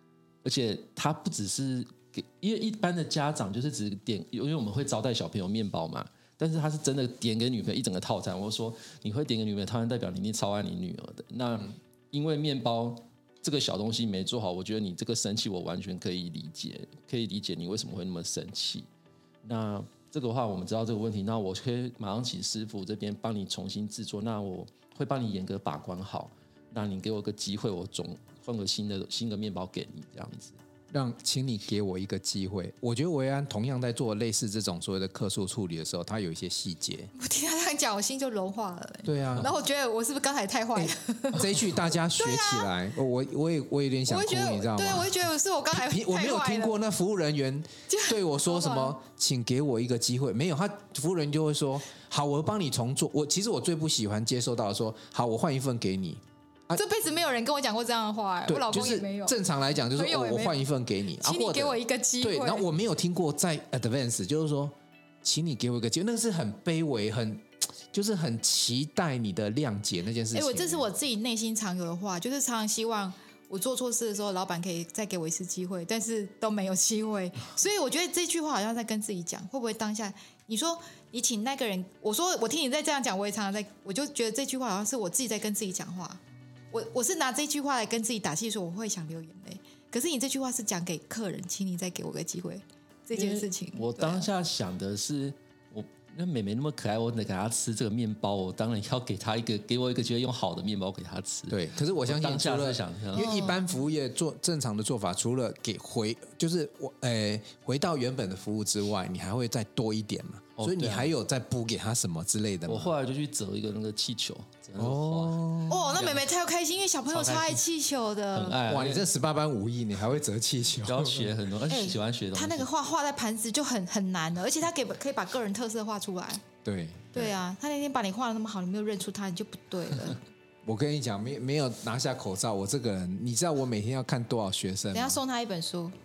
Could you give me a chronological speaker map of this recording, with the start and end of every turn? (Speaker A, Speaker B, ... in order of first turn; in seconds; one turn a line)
Speaker A: 0.4-18.9
Speaker A: 19.4-30.6
Speaker B: 30.9-37.1
Speaker C: 37.1-42.7
Speaker B: 39.0-39.5
Speaker B: 41.3-56.8
Speaker C: 44.1-46.8
Speaker C: 47.9-49.0
Speaker C: 56.7-59.4
Speaker B: 58.5-70.9
Speaker C: 59.9-60.6
Speaker C: 61.2-62.6
Speaker C: 70.3-86.2
Speaker C: 86.7-94.3
Speaker A: 93.1-103.4
Speaker B: 101.5-112.9
Speaker C: 103.1-103.6
Speaker A: 110.6-111.1
Speaker A: 112.7-116.3
Speaker B: 114.8-115.9
Speaker C: 115.7-118.6
Speaker A: 117.1-117.7
Speaker A: 118.3-119.1
Speaker B: 118.7-121.3
Speaker A: 120.8-122.7
Speaker C: 121.7-126.4
Speaker B: 126.6-127.3
Speaker C: 127.1-130.2
Speaker B: 130.7-135.2
Speaker C: 134.9-135.9